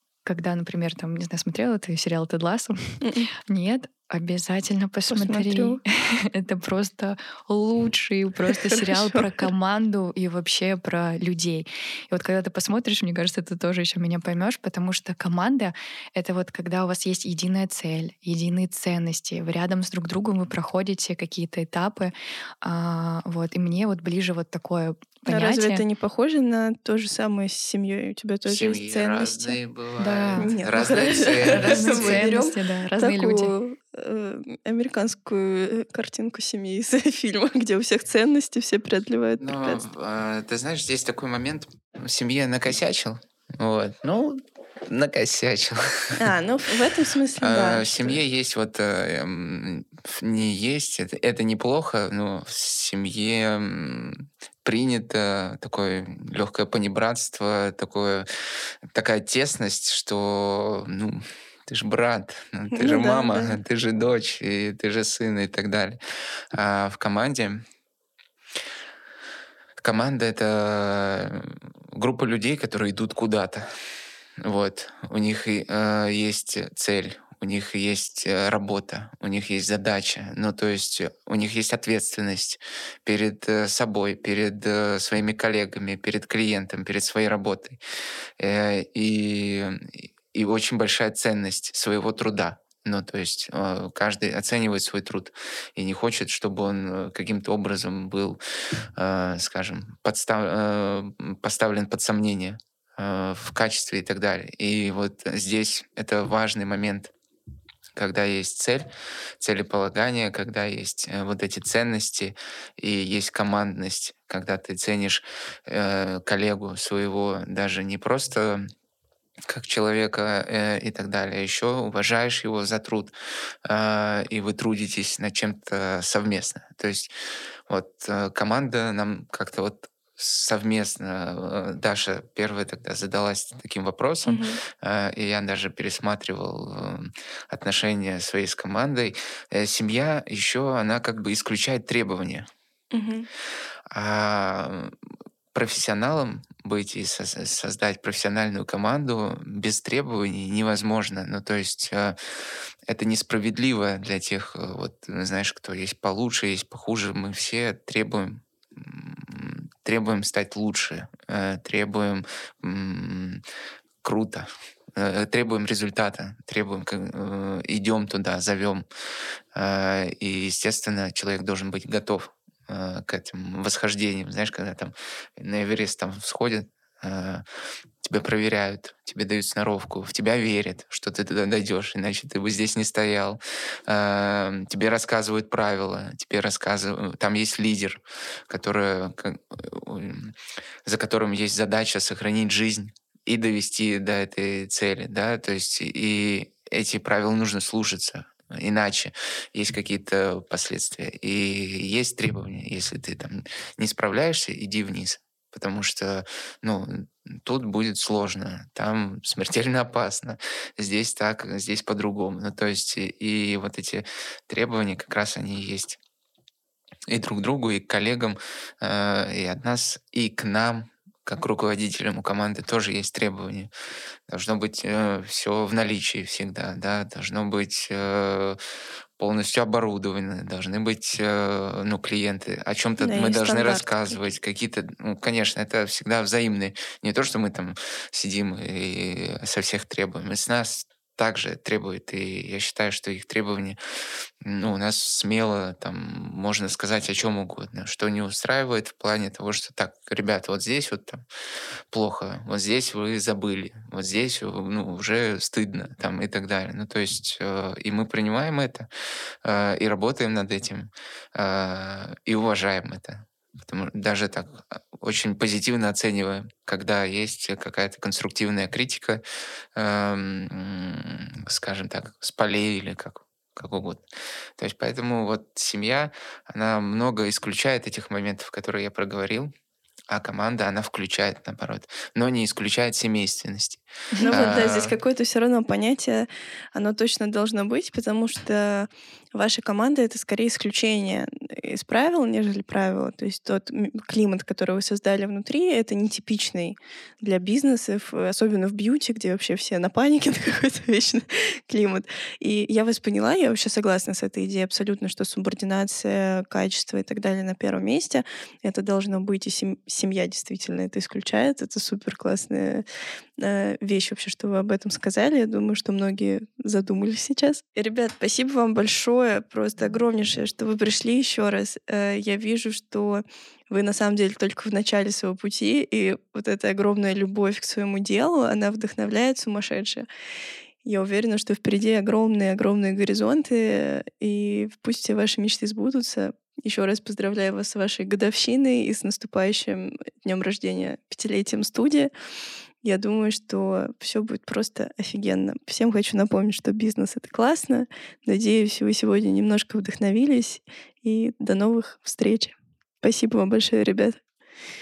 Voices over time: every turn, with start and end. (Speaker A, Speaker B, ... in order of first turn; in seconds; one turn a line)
Speaker A: 0.2-25.8
Speaker B: 3.0-3.3
Speaker B: 5.1-5.8
Speaker B: 8.5-9.4
Speaker B: 25.3-29.6
Speaker C: 28.5-32.3
Speaker A: 30.0-30.8
Speaker B: 30.4-39.8
Speaker A: 31.5-33.5
Speaker C: 39.4-46.2
Speaker B: 46.2-48.2
Speaker C: 47.4-58.3
Speaker C: 59.0-66.0
Speaker B: 62.7-63.6
Speaker C: 66.5-67.6
Speaker C: 69.8-73.7
Speaker C: 74.4-87.8
Speaker C: 88.4-98.4
Speaker C: 99.0-107.1
Speaker C: 108.0-108.9
Speaker C: 109.4-118.7
Speaker C: 119.5-123.1
Speaker C: 123.7-127.1
Speaker C: 127.7-142.5
Speaker B: 134.2-134.6
Speaker B: 142.9-143.3
Speaker C: 143.9-144.9
Speaker C: 145.5-152.2
Speaker C: 152.9-163.4
Speaker C: 164.0-168.8
Speaker C: 169.6-177.4
Speaker C: 178.0-216.0
Speaker C: 217.1-223.7
Speaker C: 224.3-228.6
Speaker C: 229.2-243.8
Speaker B: 233.0-234.2
Speaker C: 244.4-251.2
Speaker C: 251.9-258.9
Speaker C: 259.4-269.2
Speaker C: 269.8-274.0
Speaker C: 274.6-279.5
Speaker C: 280.1-284.9
Speaker B: 284.2-312.9
Speaker B: 313.4-330.1
Speaker B: 330.8-342.1
Speaker B: 342.8-354.2